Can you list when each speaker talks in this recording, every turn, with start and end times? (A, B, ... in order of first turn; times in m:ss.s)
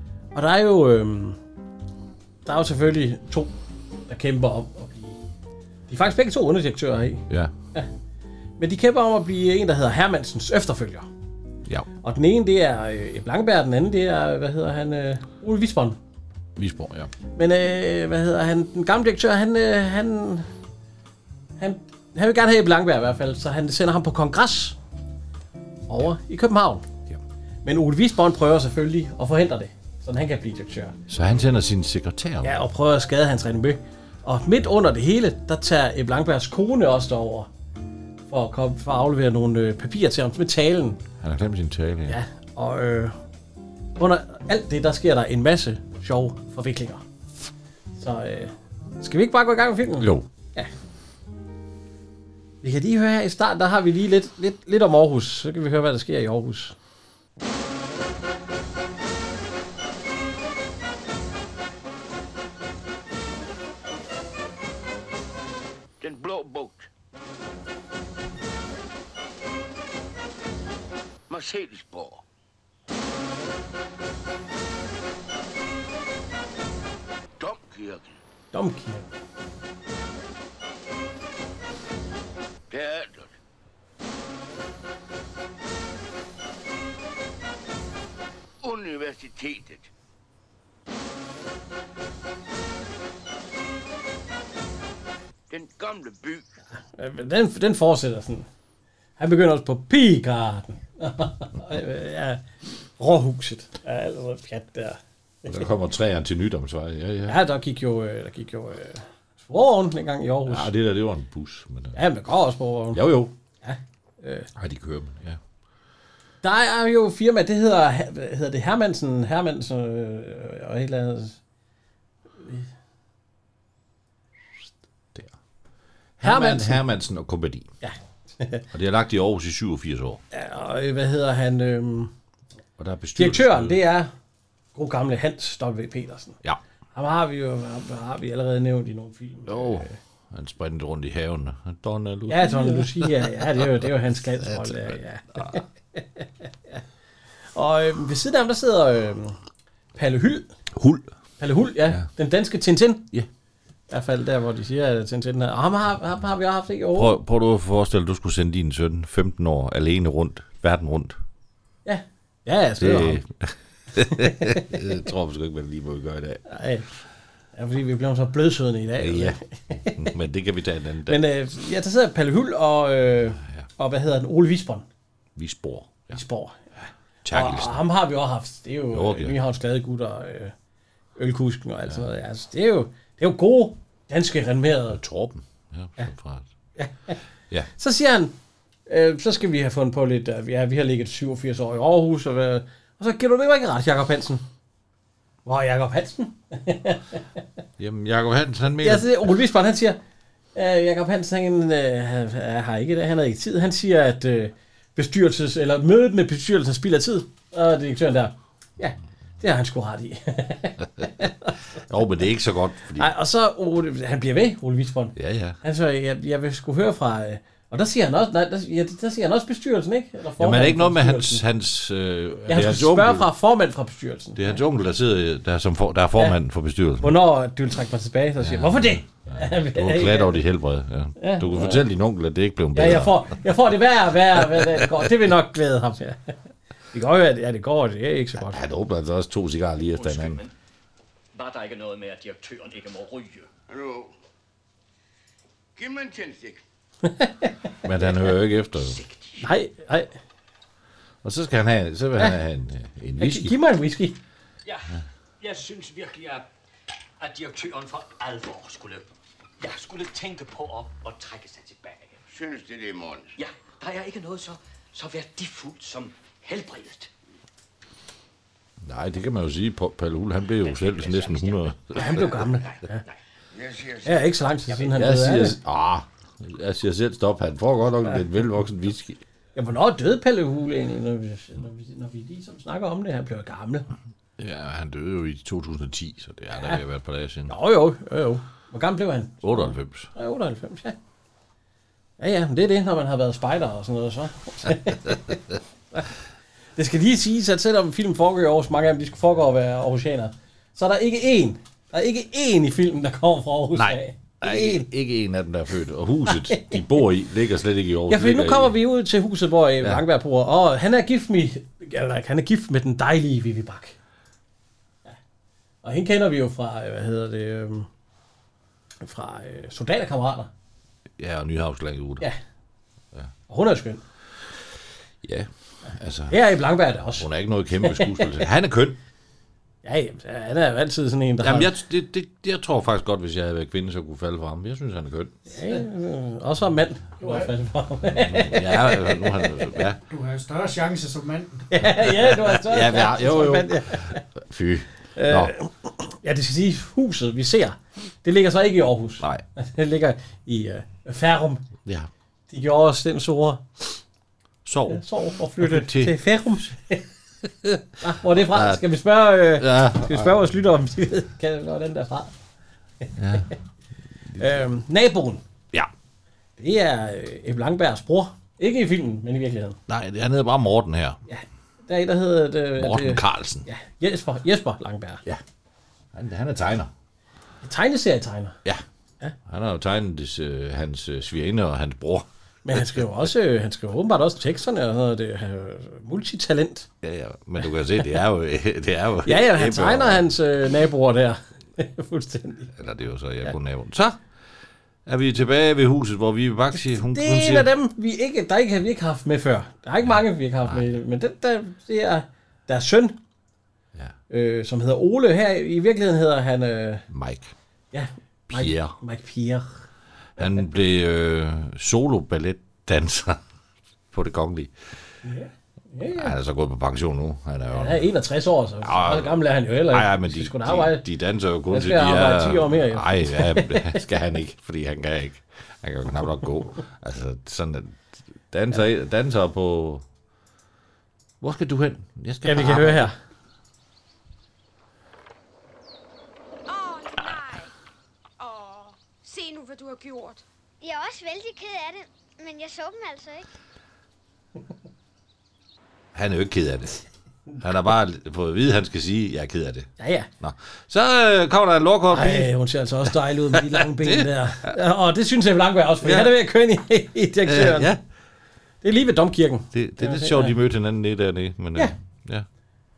0:00.3-0:01.4 A
0:02.4-0:03.5 A
0:04.1-0:05.2 A
0:05.9-0:07.9 A
0:08.6-0:11.1 A
0:12.0-0:16.0 A
0:16.6-0:17.1 B
0:17.4-0:20.5 A
0:21.6-0:24.8 A
0:25.9-0:26.8 A
0:27.6-0:31.0 A
0:31.1-0:32.6 B
0:32.4-0:37.5 A
0:38.3-0:41.0 A
0:41.2-0:42.2 B
0:42.1-0:43.2 A
0:44.0-0:47.0 A
0:48.0-0:50.7 A
0:50.0-0:50.3 B
0:52.6-0:56.8 A
1:06.0-1:06.9 C
1:11.3-1:12.2 C
1:17.4-1:18.2 C
1:18.5-1:19.1 A
1:22.7-1:23.4 C
1:28.6-1:29.9 C
1:35.5-1:36.5 C
1:36.8-1:38.5 A
1:39.2-1:42.4 A
1:43.0-1:45.6 A
1:45.4-1:47.4 B
1:47.3-1:50.7 A
1:50.5-1:52.0 B
1:52.0-1:53.0 A
1:52.9-1:53.3 B
1:53.6-1:54.5 A
1:54.6-1:55.4 B
1:56.4-2:01.4 A
2:02.4-2:02.7 A
2:06.2-2:07.7 B
2:06.2-2:06.8 A
2:07.8-2:08.6 A
2:08.7-2:10.2 B
2:10.3-2:12.1 A
2:12.8-2:13.8 B
2:13.2-2:14.1 A
2:14.8-2:16.4 A
2:16.9-2:20.0 A
2:19.5-2:25.6 B
2:22.3-2:26.8 A
2:27.5-2:29.4 A
2:29.9-2:30.5 A
2:30.7-2:31.1 B
2:31.4-2:33.1 A
2:33.9-2:37.2 A
2:37.0-2:41.2 B
2:41.8-2:43.2 A
2:42.8-2:46.4 B
2:44.2-2:44.6 A
2:46.5-2:46.9 A
2:47.6-2:50.0 A
2:49.0-2:51.2 B
2:51.1-2:54.9 A
2:55.4-2:56.2 B
2:56.1-2:56.8 A
2:57.2-2:57.8 B
2:57.3-3:00.5 A
2:58.9-2:59.4 B
3:01.2-3:05.0 A
3:04.9-3:06.5 B
3:06.8-3:07.2 A
3:07.8-3:08.3 A
3:08.9-3:14.4 A
3:15.4-3:17.0 A
3:17.8-3:19.3 B
3:18.8-3:20.0 A
3:20.6-3:31.6 A
3:31.9-3:33.1 B
3:33.0-3:41.4 A
3:35.2-3:35.6 B
3:40.4-3:43.3 B
3:42.5-3:44.6 A
3:44.4-3:47.2 B
3:47.0-3:50.4 A
3:48.4-3:53.3 B
3:51.2-3:51.8 A
3:52.7-3:56.3 A
3:56.9-3:58.6 A
3:58.4-4:00.4 B
3:59.9-4:00.5 D
4:01.3-4:03.5 D
4:03.7-4:04.1 C
4:05.8-4:06.6 C
4:07.0-4:07.5 A
4:07.8-4:09.0 B
4:08.8-4:09.5 D
4:09.4-4:10.2 A
4:11.2-4:13.6 B
4:13.2-4:14.2 A
4:14.6-4:16.5 D
4:17.2-4:19.1 D
4:19.6-4:22.2 D
4:22.3-4:23.4 C
4:23.4-4:27.1 D
4:28.8-4:32.3 B
4:30.6-4:33.2 D
4:31.9-4:33.0 A
4:33.5-4:34.2 C
4:34.0-4:35.6 A
4:34.8-4:39.2 B
4:39.6-4:43.9 A
4:44.4-4:47.5 B
4:46.5-4:46.8 A
4:47.5-4:51.0 A
4:49.4-4:50.1 B
4:52.2-4:56.1 A
4:56.8-5:04.9 A
5:03.7-5:08.7 B
5:06.3-5:06.8 A
5:08.1-5:14.0 A
5:15.8-5:17.9 A
5:19.0-5:20.5 A
5:21.2-5:22.3 B
5:23.5-5:24.0 A
5:25.2-5:26.4 B
5:26.3-5:27.3 A
5:27.1-5:29.0 B
5:27.8-5:28.3 A
5:29.8-5:31.7 A
5:31.4-5:35.4 B
5:35.5-5:39.7 A
5:37.2-5:37.5 E
5:38.1-5:40.0 B
5:40.1-5:41.7 E
5:41.7-5:44.2 A
5:42.1-5:45.5 B
5:45.2-5:51.6 A
5:52.5-5:54.0 A
5:54.6-5:56.2 B
5:54.9-5:57.0 A
5:58.0-6:02.3 A
5:58.3-5:58.8 B
5:59.6-6:00.5 B
6:03.1-6:03.4 A
6:03.2-6:03.5 B
6:04.4-6:05.4 A
6:06.6-6:09.8 A
6:09.9-6:11.2 B
6:11.3-6:15.2 A
6:12.8-6:13.7 B
6:16.1-6:16.9 B
6:17.6-6:18.6 A
6:19.5-6:23.0 B
6:22.6-6:26.9 A
6:27.0-6:30.3 B
6:29.3-6:32.8 A
6:32.8-6:34.2 B
6:35.1-6:37.7 B
6:36.8-6:43.2 A
6:44.3-6:47.1 A
6:47.1-6:47.5 B
6:47.9-6:49.9 A
6:48.5-6:49.0 B
6:50.4-6:53.4 B
6:54.1-6:54.8 B
6:55.2-6:56.3 A
6:56.2-6:58.0 B
6:57.7-7:01.0 A
6:58.8-7:10.0 B
7:01.7-7:04.0 A
7:11.4-7:13.1 B
7:12.4-7:13.2 A
7:16.7-7:17.7 F
7:18.4-7:20.4 F
7:20.8-7:23.5 G
7:26.1-7:27.0 B
7:27.6-7:32.5 B
7:30.0-7:30.3 A
7:32.1-7:37.9 A
7:33.5-7:34.7 B
7:36.0-7:36.3 B
7:37.4-7:38.0 B
7:38.8-7:40.5 A
7:39.7-7:42.5 B